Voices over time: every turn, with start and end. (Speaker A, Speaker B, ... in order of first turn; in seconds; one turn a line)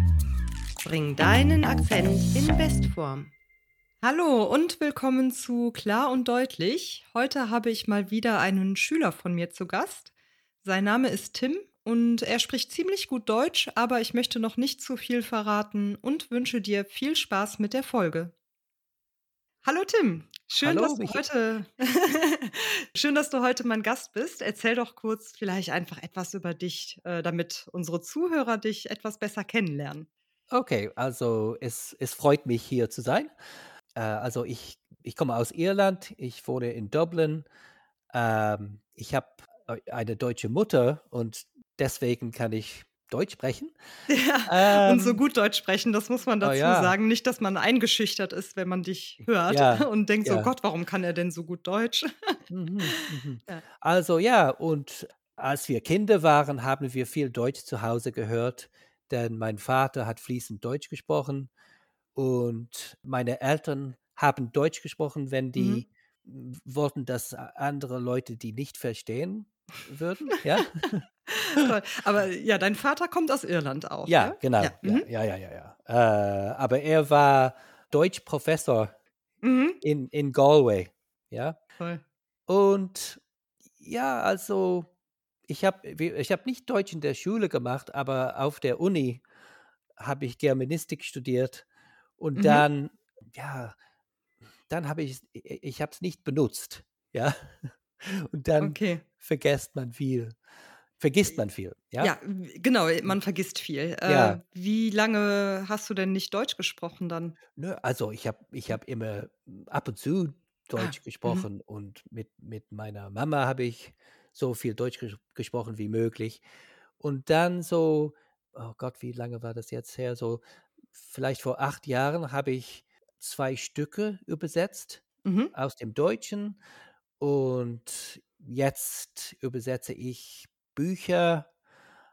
Speaker A: 0.8-3.3
Speaker A: 4.0-10.1
Speaker A: 10.6-18.3
Speaker A: 19.6-30.1
Speaker B: 20.6-21.2
Speaker B: 30.5-33.3
Speaker B: 33.9-37.5
Speaker B: 38.1-43.7
Speaker A: 44.1-52.4
Speaker B: 44.5-45.2
Speaker B: 46.4-47.0
Speaker B: 49.4-50.5
Speaker B: 52.5-61.5
Speaker A: 52.9-53.6
Speaker B: 62.1-71.0
Speaker A: 65.5-65.8
Speaker A: 71.3-75.1
Speaker B: 74.0-78.9
Speaker A: 79.4-79.8
Speaker B: 79.8-81.6
Speaker B: 82.5-83.2
Speaker B: 83.8-84.9
Speaker B: 85.5-89.2
Speaker B: 90.0-91.7
Speaker B: 92.2-93.8
Speaker A: 92.3-92.7
Speaker B: 94.7-100.4
Speaker A: 98.6-99.0
Speaker B: 101.0-102.2
Speaker A: 102.0-107.3
Speaker B: 104.0-104.4
Speaker B: 107.5-116.4
Speaker A: 110.8-111.5
Speaker B: 117.0-120.4
Speaker B: 120.9-126.6
Speaker A: 125.2-125.5
Speaker B: 127.2-131.5